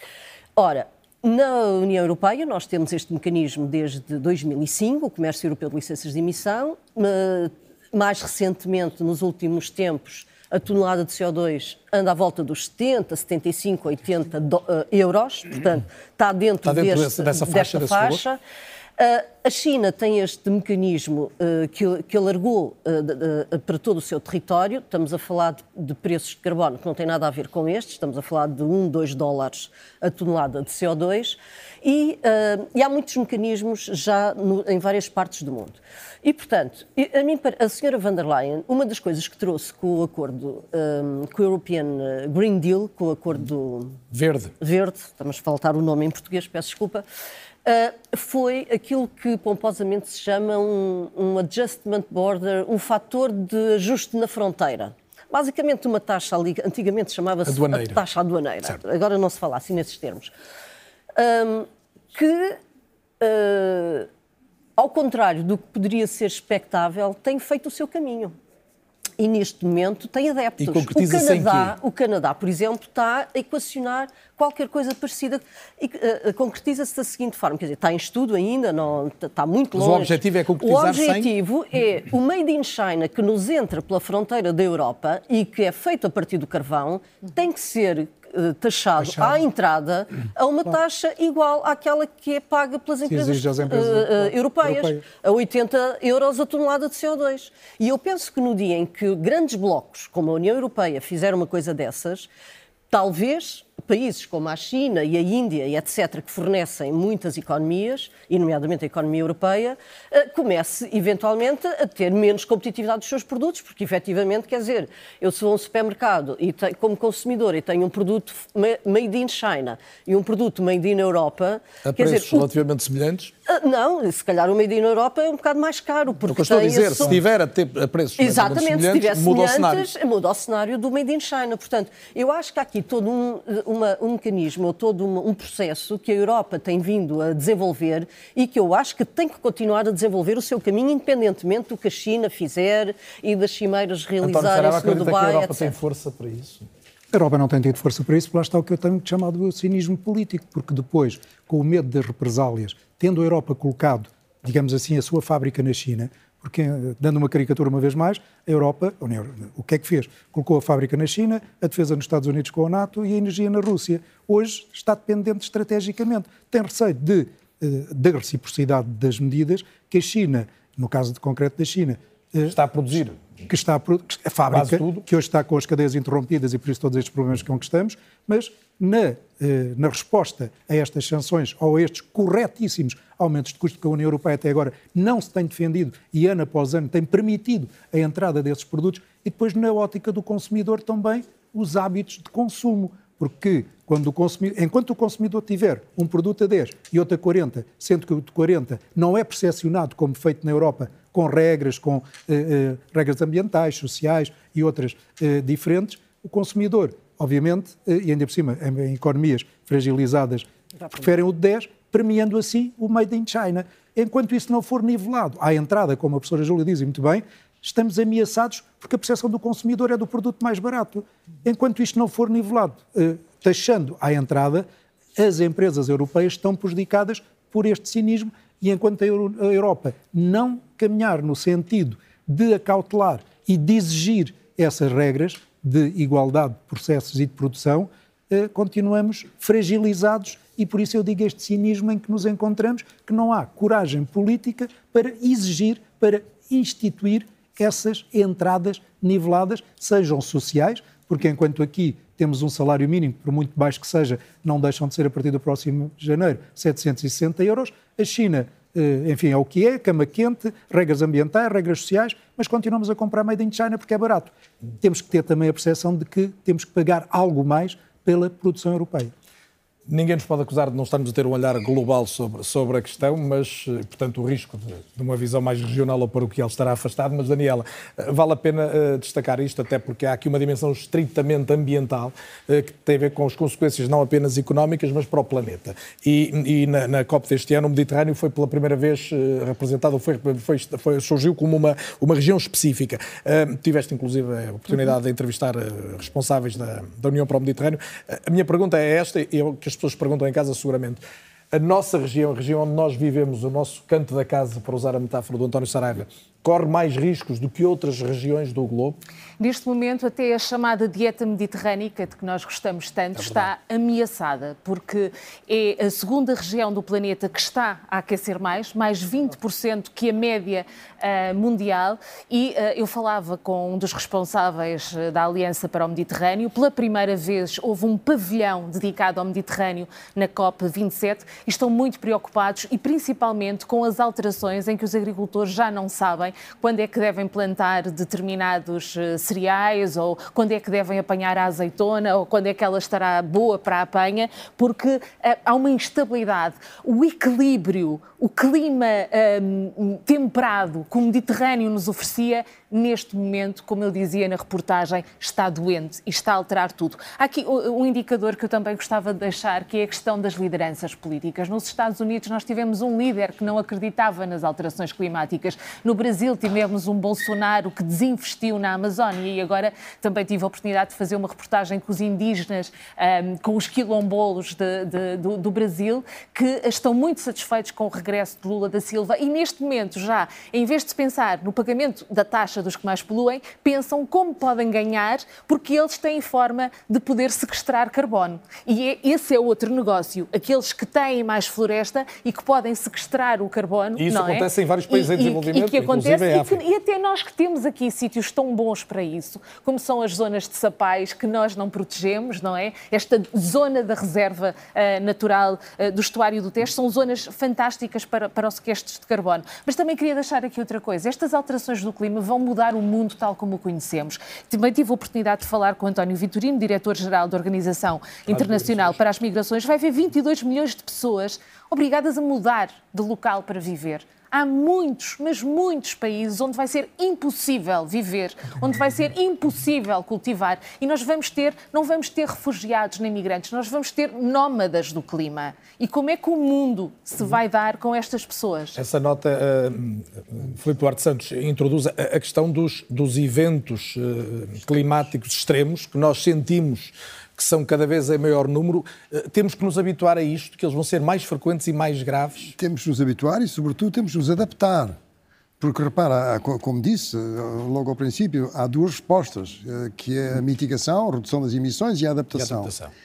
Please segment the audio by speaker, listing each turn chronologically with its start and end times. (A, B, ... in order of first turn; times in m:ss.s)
0:00.6-0:18.4 A
0:16.6-0:18.2 B
0:19.0-0:44.0 A
0:44.1-0:44.5 B
0:44.6-0:47.0 A
0:47.6-1:00.3 A
0:57.4-0:58.0 B
1:01.2-1:02.6 A
1:03.2-1:04.1 A
1:04.8-1:08.3 A
1:09.2-1:42.3 A
1:10.6-1:11.7 B
1:19.8-1:21.3 B
1:29.0-1:29.4 C
1:33.1-1:35.0 C
1:42.9-2:02.5 A
2:01.8-2:03.3 B
2:03.4-2:07.2 A
2:06.2-2:09.9 B
2:08.2-2:25.8 A
2:24.2-2:26.7 B
2:27.1-2:52.6 C
2:52.5-2:53.2 B
2:53.4-4:29.1 C
2:54.5-2:55.0 B
4:29.9-5:01.0 B
5:01.5-5:09.0 B
5:09.4-7:18.8 D
5:13.2-5:13.5 B
6:34.0-6:36.6 B
6:58.3-6:58.9 B
7:18.8-7:32.5 B
7:32.5-7:35.0 E
7:35.6-7:42.7 E
7:42.3-7:42.9 B